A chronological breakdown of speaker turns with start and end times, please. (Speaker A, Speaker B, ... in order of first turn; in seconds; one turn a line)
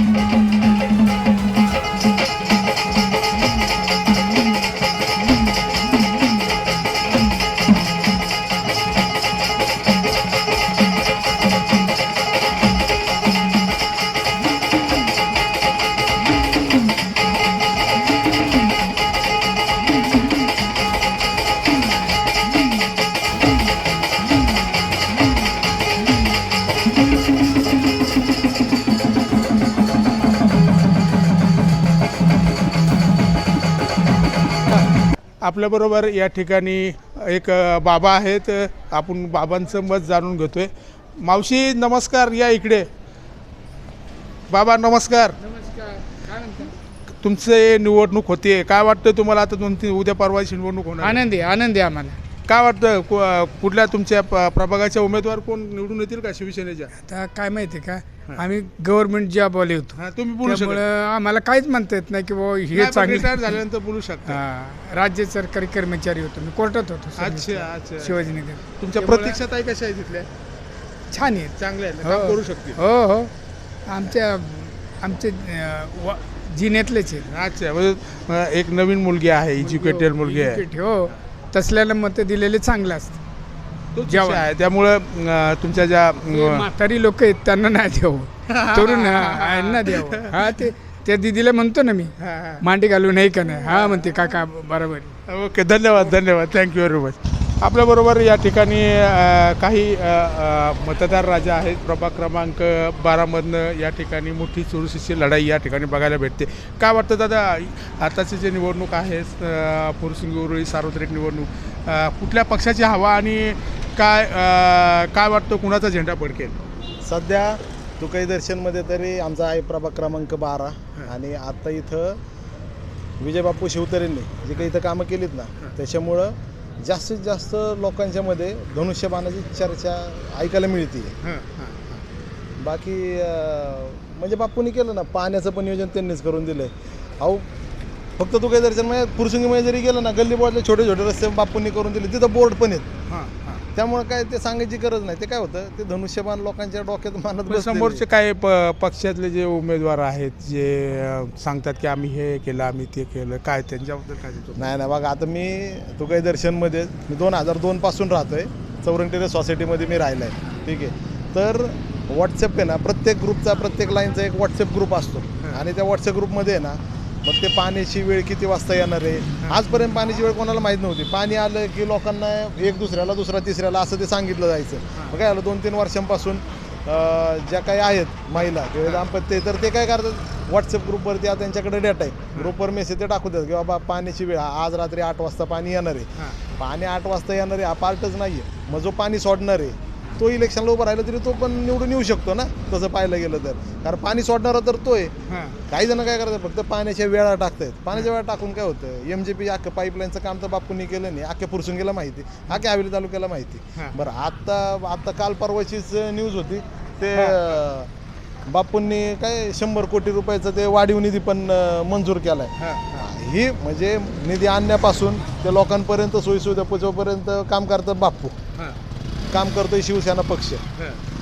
Speaker A: 35.4-42.9
Speaker A: 44.5-45.4
Speaker B: 45.7-46.7
Speaker A: 47.2-51.2
Speaker B: 51.0-52.2
Speaker A: 52.5-56.9
Speaker B: 57.1-63.6
Speaker A: 60.0-60.8
Speaker A: 62.7-64.4
Speaker B: 64.2-69.4
Speaker A: 67.2-68.2
Speaker A: 68.8-70.3
Speaker B: 71.1-73.3
Speaker A: 71.6-72.8
Speaker B: 73.9-77.3
Speaker A: 77.3-80.6
Speaker B: 79.6-83.2
Speaker A: 83.9-86.7
Speaker B: 84.1-84.5
Speaker B: 86.3-95.1
Speaker A: 88.5-90.6
Speaker A: 92.2-92.6
Speaker A: 93.6-94.1
Speaker A: 95.3-116.5
Speaker C: 117.0-122.2
Speaker C: 123.2-131.2
Speaker A: 131.2-132.0
Speaker C: 132.6-137.5
Speaker C: 138.2-142.9
Speaker A: 143.1-143.6
Speaker C: 143.7-148.0
Speaker A: 147.5-154.7
Speaker C: 154.6-195.1
Speaker A: 178.4-179.0
Speaker A: 195.3-195.6
Speaker C: 195.7-207.9
Speaker A: 207.1-207.4
Speaker C: 208.5-218.4
Speaker A: 212.6-213.1
Speaker C: 219.3-220.6